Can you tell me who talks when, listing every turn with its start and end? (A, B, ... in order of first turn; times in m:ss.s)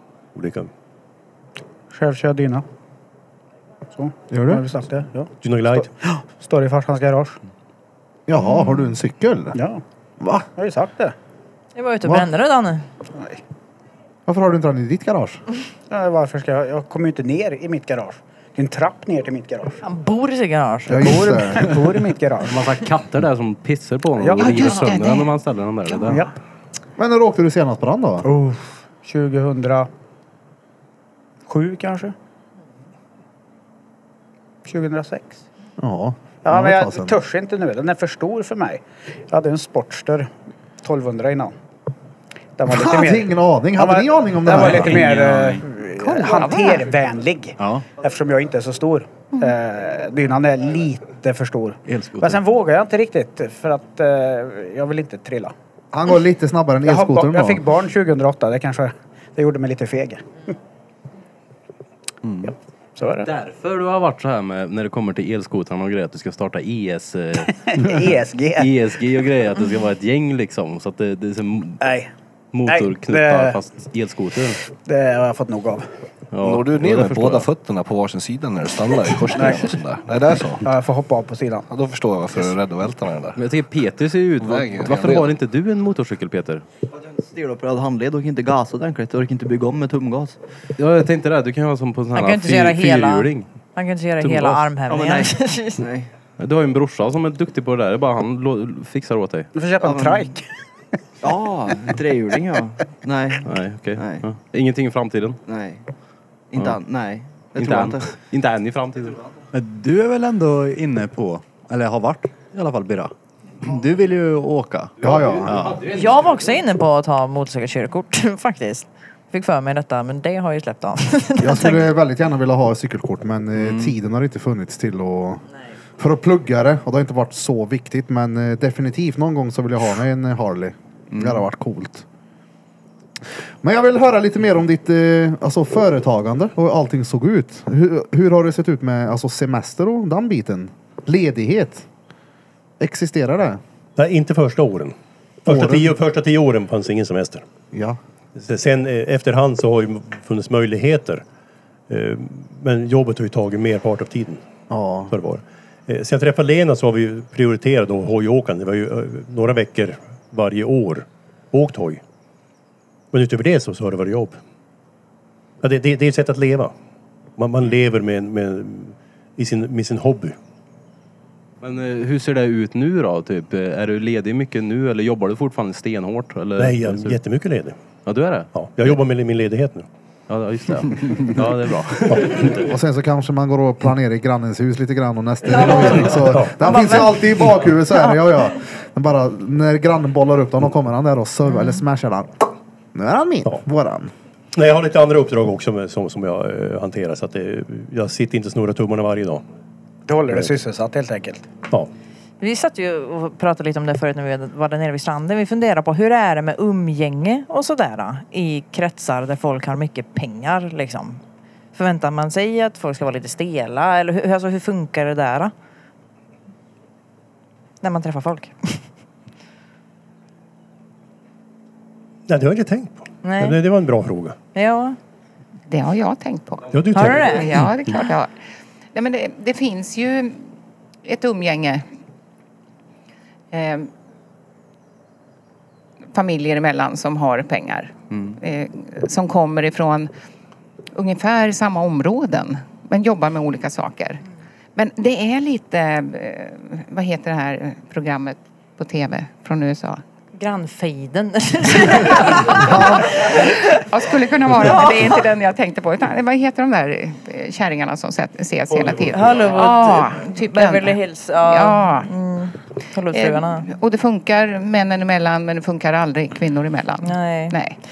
0:00.3-0:00.7 A
0:01.9-0:02.6 B
0:04.0-0:07.4 B
0:04.3-0:04.6 C
0:05.4-0:05.9 A
0:08.3-0:09.6 C
0:09.5-0:09.8 B
0:10.2-0:10.5 C
0:10.5-0:11.2 B
0:11.8-0:12.8 D
0:13.1-0:13.4 B
0:14.3-0:15.4 C
0:15.9-0:19.8 B
0:19.8-0:21.2 D
0:20.9-0:21.7 C
0:20.9-0:22.6 B
0:22.4-0:26.3 E
0:24.2-0:24.8 B
0:24.4-0:25.3 F
0:26.0-0:26.3 B
0:27.0-0:28.3 C
0:28.2-0:29.9 B
0:31.4-0:32.1 B
0:34.6-0:35.4 B
0:35.8-0:37.2 C
0:36.4-0:41.5 B
0:42.6-0:55.5 B
0:42.7-0:45.0 C
0:44.8-0:45.4 E
0:45.0-0:45.5 G
0:46.0-0:46.9 F
0:47.6-0:47.8 G
0:51.9-0:52.4 G
0:55.9-0:57.6 C
0:56.8-1:00.5 B
1:03.0-1:03.3 B
1:03.2-1:11.8 E
1:07.4-1:09.0 B
1:11.8-1:12.1 B
1:12.5-1:14.6 E
1:12.6-1:13.6 B
1:14.8-1:15.9 B
1:16.3-1:17.5 E
1:16.4-1:20.7 H
1:19.3-1:19.7 B
1:20.6-1:21.7 B
1:21.7-1:23.4 H
1:23.3-1:26.6 E
1:24.4-1:25.3 H
1:26.9-1:30.4 I
1:30.8-1:33.5 E
1:32.1-1:35.8 D
1:34.2-1:34.7 E
1:34.8-1:36.1 I
1:36.4-1:39.5 E
1:39.5-1:40.4 B
1:39.8-1:40.2 I
1:41.2-1:44.2 I
1:43.4-1:45.4 E
1:45.4-1:45.8 I
1:46.5-1:48.1 I
1:47.5-1:49.2 E
1:49.5-1:55.8 G
1:55.0-1:56.3 E
1:55.0-1:55.8 C
1:55.9-2:01.9 D
2:01.4-2:05.4 C
2:03.6-2:03.9 G
2:06.0-2:12.0 C
2:11.1-2:11.4 G
2:13.6-2:21.8 C
2:22.8-2:23.6 C
2:24.0-2:27.4 A
2:25.4-2:25.9 C
2:27.7-2:28.0 C
2:28.4-2:31.2 A
2:31.9-2:34.4 A
2:34.7-2:35.1 C
2:35.1-2:42.0 A
2:43.1-2:44.4 A
2:45.6-2:46.7 A
2:47.4-2:50.4 A
2:51.6-2:57.2 E
2:56.6-2:57.8 A
2:58.0-2:58.5 E
2:58.5-2:59.9 A
3:00.3-3:02.7 E
3:02.1-3:02.4 A
3:02.5-3:14.1 C
3:05.6-3:06.0 D
3:06.1-3:06.6 A
3:06.6-3:07.2 D
3:07.9-3:08.2 D
3:11.5-3:11.8 D
3:14.5-3:19.4 A
3:20.1-3:21.4 B
3:22.4-3:31.2 D
3:31.7-3:35.5 D
3:37.8-3:38.8 D
3:42.3-3:44.4 A
3:43.2-3:43.6 D
3:44.5-3:45.0 D
3:45.7-3:48.3 F
3:46.7-3:47.7 A
3:46.9-3:47.6 D
3:48.9-3:50.5 F
3:51.0-3:51.8 F
3:53.5-3:53.9 F
3:56.1-4:00.1 F
4:00.9-4:04.2 F
4:04.8-4:10.0 F
4:10.4-4:13.7 D
4:12.4-4:22.1 F
4:12.5-4:13.1 C
4:14.5-4:15.2 D
4:18.9-4:23.7 D
4:23.1-4:27.8 F
4:27.0-4:27.6 D